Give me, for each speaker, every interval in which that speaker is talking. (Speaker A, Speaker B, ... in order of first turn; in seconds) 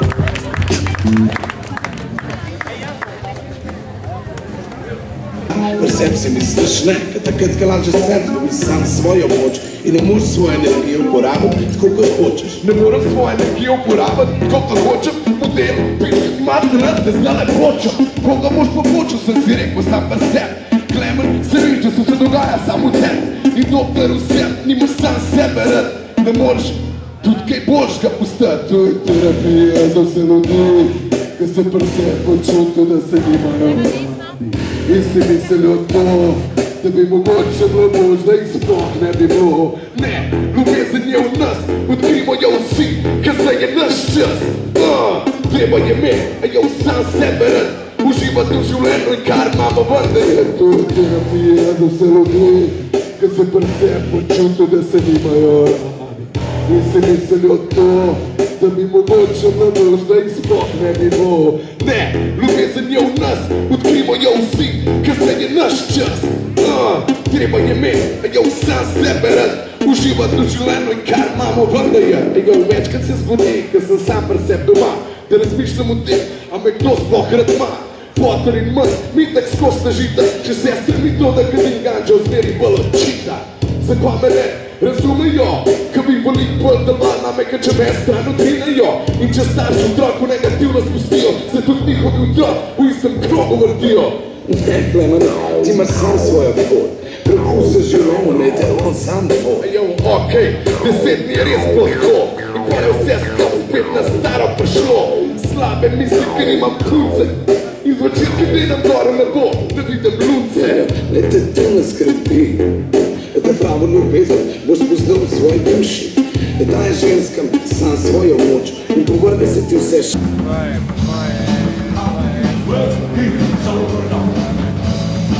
Speaker A: 5.5-12.6, 94.5-99.6, 111.2-112.8, 113.5-115.6, 117.7-120.2
Speaker B: 12.6-94.3, 99.5-111.3, 113.3-113.6, 115.2-117.9, 118.7-120.1